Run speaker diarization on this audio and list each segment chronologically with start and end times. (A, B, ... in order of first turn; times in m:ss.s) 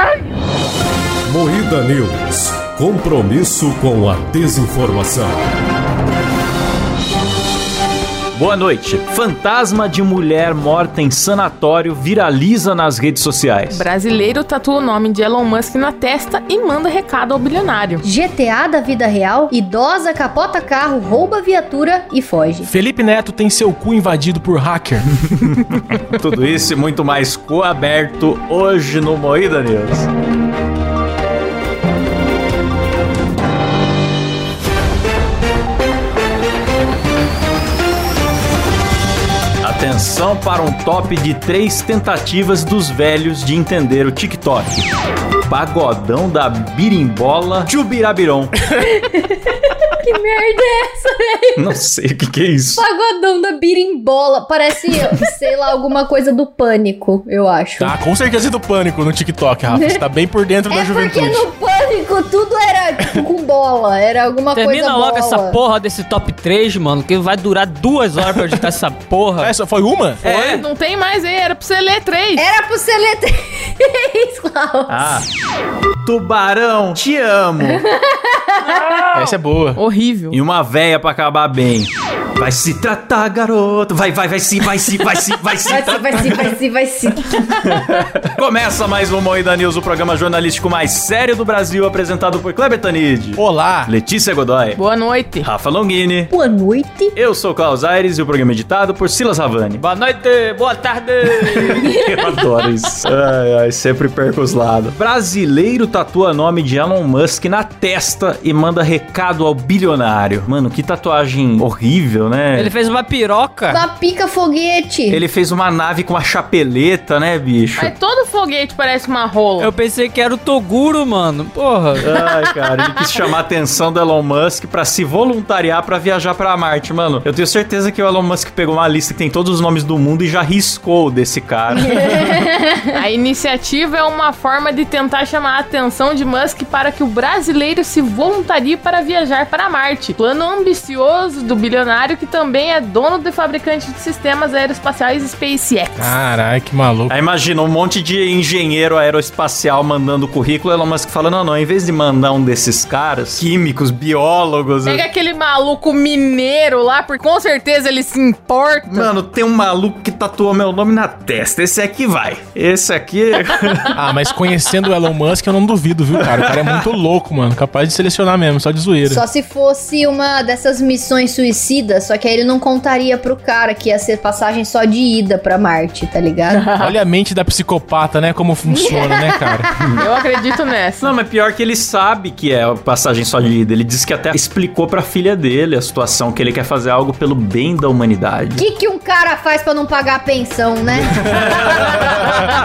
0:01.3-0:05.4 A
0:08.3-0:13.8 B
0:13.7-0:18.0 C
0:18.0-0:22.7 D
0:22.6-0:25.2 E
0:25.7-0:30.1 B
0:39.6-0:44.8 B
0:45.5-0:48.5 B
0:48.8-0:51.7 D
0:51.6-0:52.8 B
0:52.8-0:58.0 D
0:57.8-1:01.5 E
0:59.7-1:00.0 D
1:00.7-1:05.6 D
1:04.5-1:09.5 F
1:09.4-1:10.2 E
1:10.2-1:10.7 F
1:10.6-1:12.4 C
1:12.3-1:15.1 D
1:14.9-1:15.2 B
1:16.0-1:17.8 B
1:17.6-1:19.1 D
1:19.1-1:19.8 E
1:19.7-1:20.4 C
1:20.3-1:26.5 B
1:25.6-1:27.7 D
1:28.4-1:34.8 B
1:33.4-1:33.9 E
1:34.8-1:35.5 C
1:35.4-1:36.3 B
1:36.3-1:37.1 D
1:37.2-1:39.8 B
1:39.8-1:42.6 F
1:41.5-1:52.7 B
1:52.5-1:53.8 F
1:53.7-1:55.2 D
1:55.1-1:57.9 B
1:57.8-1:59.7 C
1:59.6-2:02.4 F
2:02.0-2:11.9 B
2:11.7-2:13.0 D
2:12.9-2:26.2 C
2:26.0-2:27.1 E
2:27.1-2:35.0 B
2:34.8-2:39.1 C
2:38.9-2:43.5 B
2:44.0-2:49.2 E
2:49.1-2:56.7 D
2:56.5-2:56.9 C
2:56.8-2:59.7 E
2:58.7-3:00.2 D
3:00.0-3:01.1 C
3:01.0-3:08.6 B
3:08.6-3:11.2 D
3:11.2-3:12.0 B